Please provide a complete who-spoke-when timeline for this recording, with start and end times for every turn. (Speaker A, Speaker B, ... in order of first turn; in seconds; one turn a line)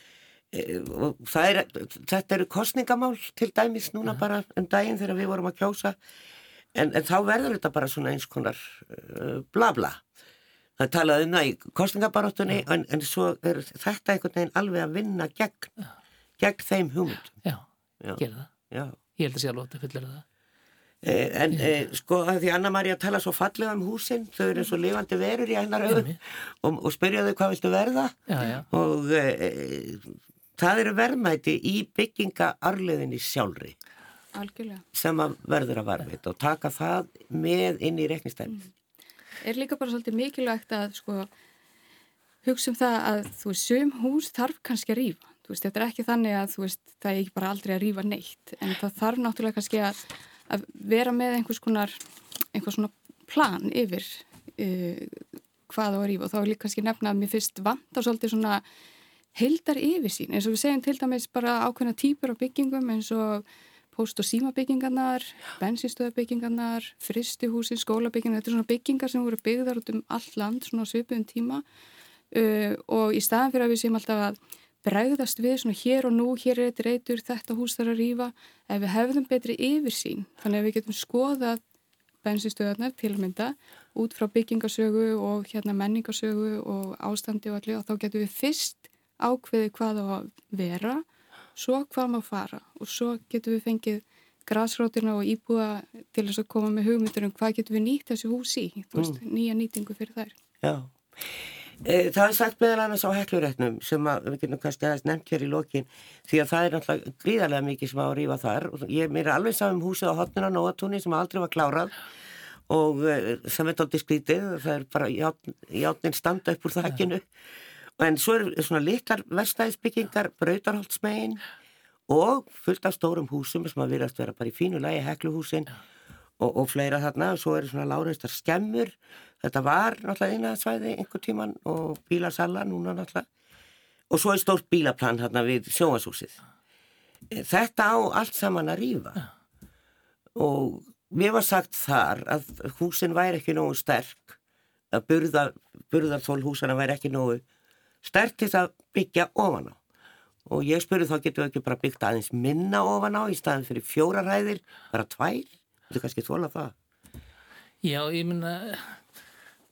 Speaker A: 0.5-6.0
Speaker A: 6.8-10.0
Speaker A: 10.8-15.7
Speaker A: 16.4-17.4
Speaker A: 18.0-19.0
Speaker B: 18.2-18.5
Speaker B: 19.2-20.2
Speaker A: 21.0-33.8
Speaker B: 25.9-26.2
Speaker B: 28.3-28.7
Speaker C: 34.3-34.8
Speaker A: 34.9-38.6
Speaker C: 39.4-41.3
Speaker C: 42.4-52.0
Speaker C: 52.5-58.6
Speaker C: 59.4-71.6
Speaker C: 72.3-81.6
Speaker C: 82.2-91.0
Speaker C: 91.6-100.3
Speaker A: 100.6-101.0
Speaker A: 101.8-111.9
Speaker A: 112.7-117.3
Speaker A: 118.0-121.4
Speaker A: 122.1-125.7
Speaker A: 126.4-133.3
Speaker A: 134.1-136.3
Speaker A: 137.3-139.2
Speaker A: 140.4-144.4
Speaker A: 144.9-147.4
Speaker A: 148.0-149.8
Speaker A: 150.5-156.7
Speaker B: 157.8-159.0